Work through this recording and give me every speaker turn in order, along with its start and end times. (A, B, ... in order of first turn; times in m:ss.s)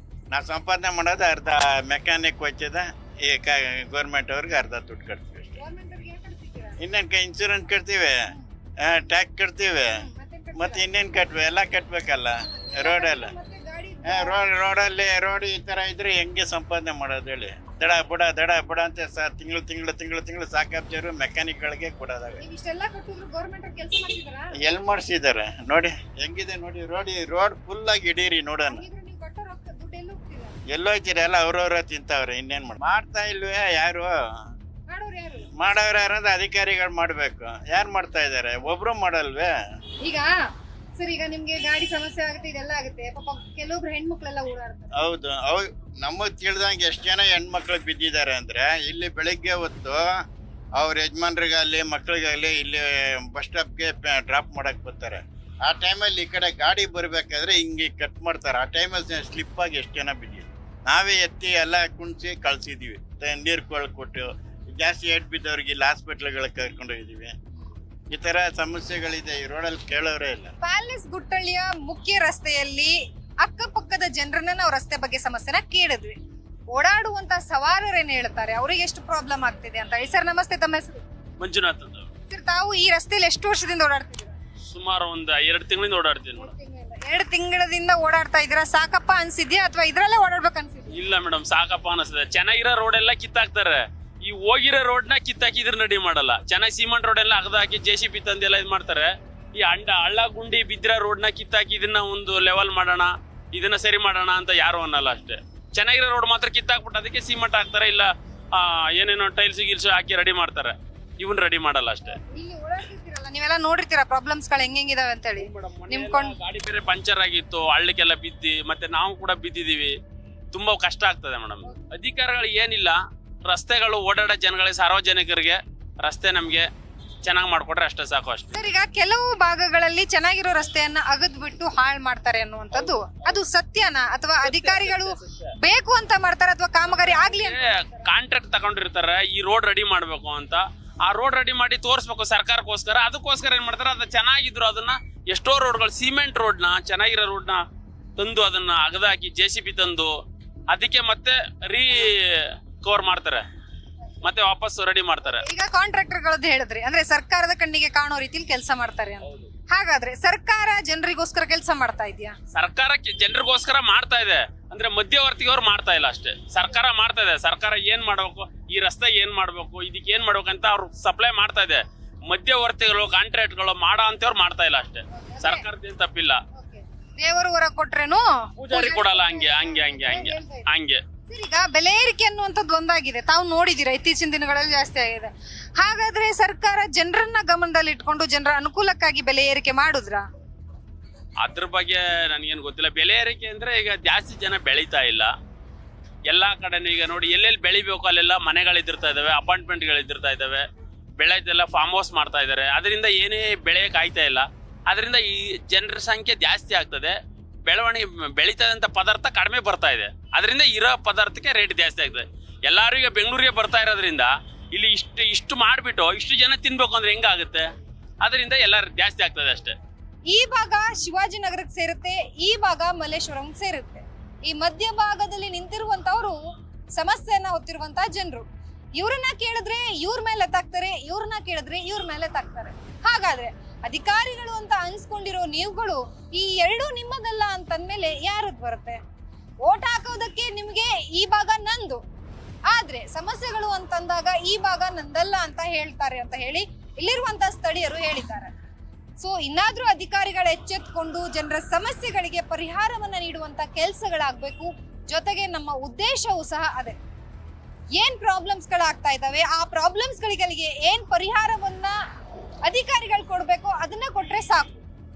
0:00.3-0:05.6 A
0:05.6-0:06.8 B
0:06.8-0:08.2 A
0:08.8-0:10.0 A
0:10.0-0:10.8 B
0:10.6-0:13.3 A
0:12.4-0:14.4 B
0:14.1-0:22.4 A
0:22.4-0:24.5 B
0:24.6-0:28.8 A
0:28.7-0:30.6 B
0:30.7-0:34.1 A
0:34.9-0:35.5 B
0:35.6-0:39.5 A
0:40.0-0:40.3 B
0:41.0-0:45.0 B
0:45.0-0:50.2 A
0:50.8-1:07.3 A
1:08.1-1:10.5 A
1:10.6-1:16.2 B
1:16.7-1:21.0 B
1:21.4-1:22.1 C
1:22.3-1:24.4 B
1:24.7-1:26.5 C
1:26.4-1:31.0 B
1:30.9-1:52.2 C
1:52.3-1:56.4 B
1:55.4-2:00.0 C
2:00.5-2:06.7 C
2:07.2-2:08.6 C
2:08.5-2:17.8 B
2:14.4-2:15.0 C
2:16.8-2:27.6 C
2:28.2-2:30.1 C
2:30.7-2:33.4 C
2:34.2-2:35.4 C
2:35.4-2:42.4 B
2:42.5-2:56.4 C
2:55.1-2:55.6 B
2:56.6-3:00.7 B
2:58.6-3:01.0 C
3:01.3-3:10.3 B
3:11.4-3:15.3 C
3:16.3-3:20.6 C
3:21.2-3:37.7 C
3:38.2-3:39.8 C
3:40.3-3:46.4 B
3:47.0-3:59.0 B
3:59.6-4:02.0 B
4:02.7-4:08.5 B
4:09.2-4:17.0 B
4:18.0-4:22.0 B
4:22.6-4:24.8 B